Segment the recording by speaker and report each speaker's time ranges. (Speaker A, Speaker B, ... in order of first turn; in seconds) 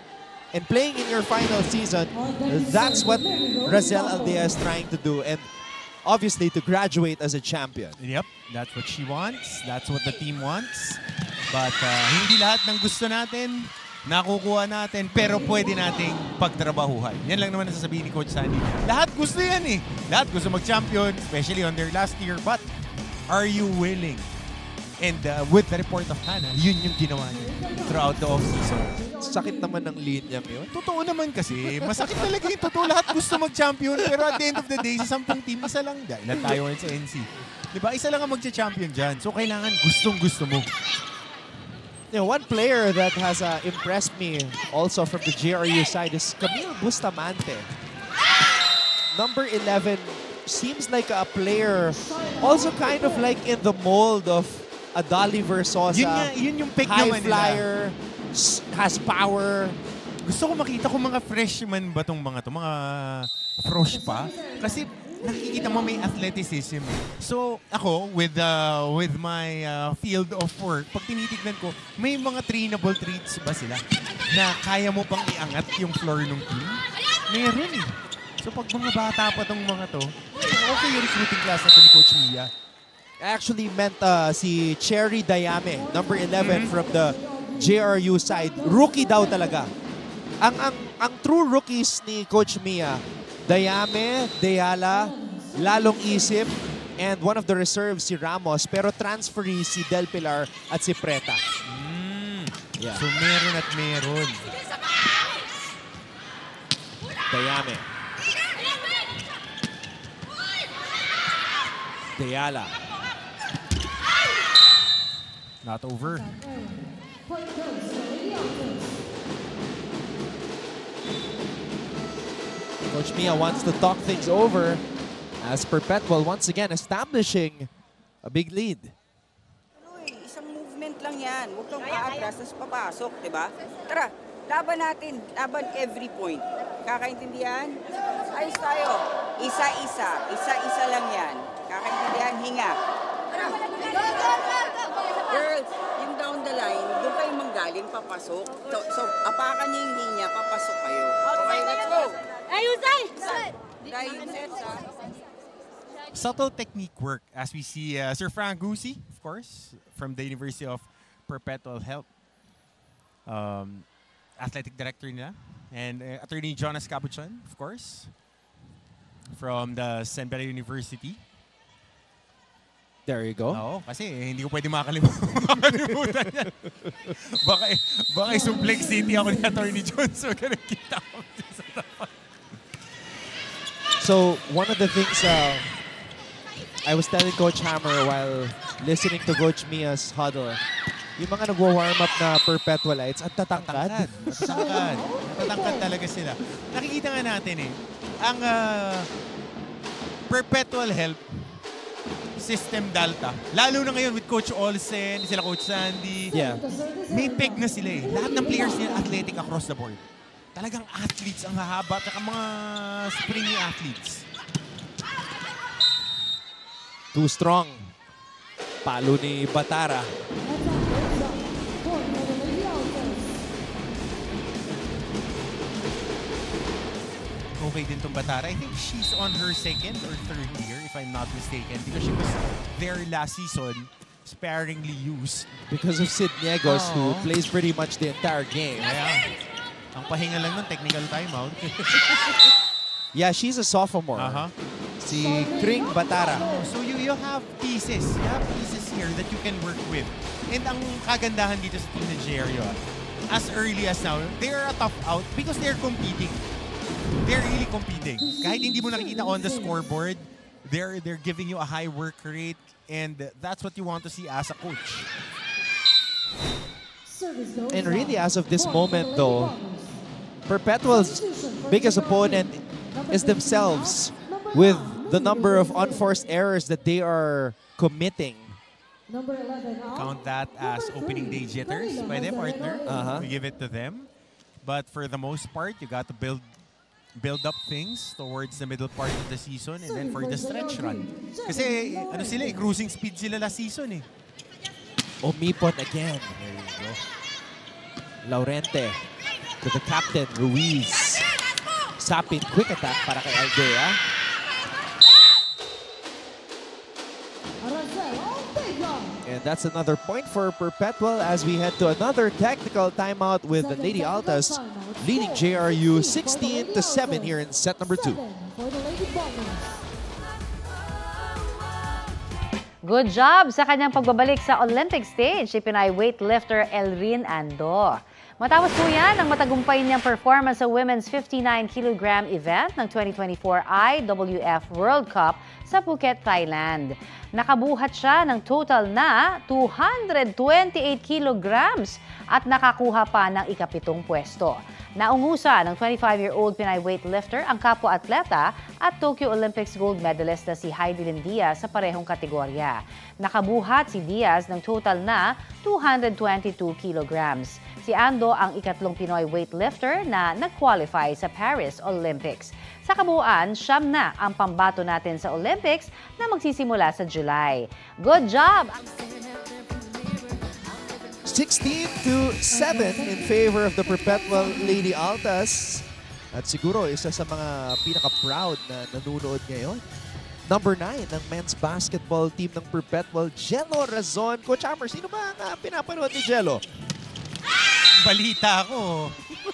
Speaker A: 0.5-5.5, 6.0-8.0, 29.2-30.8, 31.5-32.8, 42.1-47.7, 49.1-56.3, 56.8-59.8, 83.2-89.7, 90.4-101.4, 102.8-103.0, 107.3-107.9, 112.1-112.8, 122.9-124.8, 125.4-127.7, 128.2-128.9, 173.1-173.6, 184.0-185.7, 186.8-190.6, 191.2-195.0, 206.3-206.6, 217.1-217.9, 218.8-220.1, 235.7-238.9, 243.1-244.5, 245.0-246.5, 267.7-269.5, 270.5-278.6, 282.9-283.3, 295.2-296.4, 298.2-299.0, 299.6-301.3, 302.0-304.0, 309.2-318.2, 371.2-379.8, 380.4-386.6
Speaker B: 2.1-4.6, 15.1-16.2, 27.3-29.7, 51.9-53.3, 63.9-66.4, 85.7-89.7, 94.9-96.4, 116.0-119.0, 123.2-124.8, 178.2-179.8, 194.4-195.9, 206.3-209.2, 220.5-223.4, 245.1-246.7, 258.2-259.8, 267.0-270.0, 270.9-276.2, 279.1-283.2, 289.8-292.7, 307.6-309.2, 313.5-319.8, 372.5-374.9
Speaker C: 8.0-22.6, 23.3-24.3, 25.0-28.9, 30.7-40.7, 55.9-57.6, 60.2-82.5, 86.4-86.7, 101.6-104.5, 115.6-116.3, 156.1-162.1, 163.2-163.8, 164.4-168.1, 169.3-171.2, 173.5-182.1, 193.5-199.1, 200.3-201.2, 202.4-206.4, 207.1-210.0, 210.5-214.2, 227.6-235.5, 236.6-237.3, 238.8-239.3, 239.9-242.4, 244.2-244.5, 246.3-256.5, 257.2-265.1, 279.9-284.1, 284.6-286.5, 287.1-294.1, 296.4-297.0, 387.9-389.2
Speaker D: 129.8-137.8, 138.3-142.8, 143.3-155.1
Speaker E: 322.9-368.8